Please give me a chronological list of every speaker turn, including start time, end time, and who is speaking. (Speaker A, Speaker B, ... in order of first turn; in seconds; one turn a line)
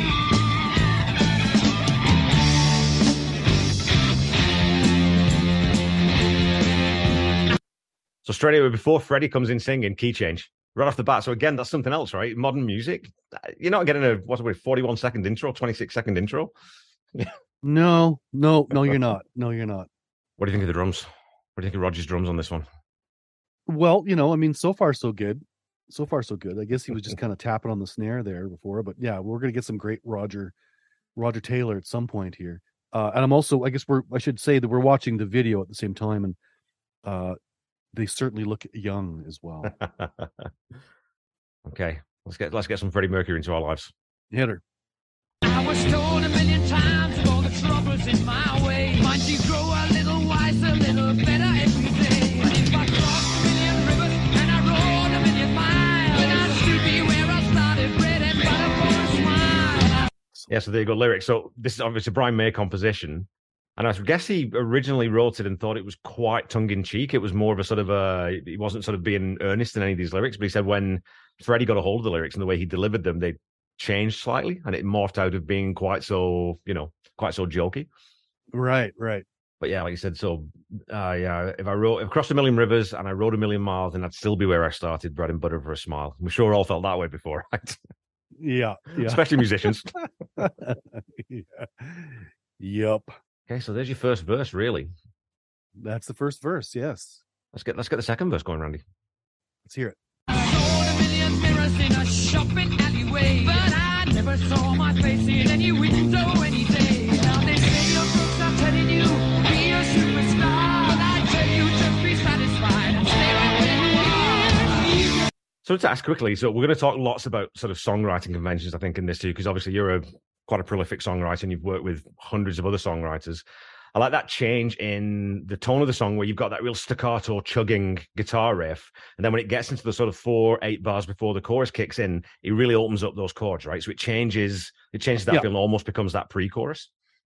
Speaker A: 8.2-16.5
Speaker B: 17.6-19.9
Speaker A: 20.4-22.6
Speaker B: 23.7-30.5
Speaker B: 31.1-36.4
Speaker B: 37.0-37.4
Speaker B: 37.9-39.8
Speaker A: 39.7-40.5
Speaker A: 41.6-43.9
Speaker B: 44.3-44.6
Speaker C: 45.4-60.1
Speaker A: 60.5-77.9
Speaker B: 78.5-79.2
Speaker A: 79.6-87.8
Speaker B: 88.4-89.2
Speaker A: 88.9-89.9
Speaker B: 90.4-93.1
Speaker A: 93.5-94.9
Speaker B: 95.8-97.2
Speaker A: 97.5-98.8
Speaker B: 99.7-100.0
Speaker C: 100.3-115.0
Speaker A: 115.6-136.9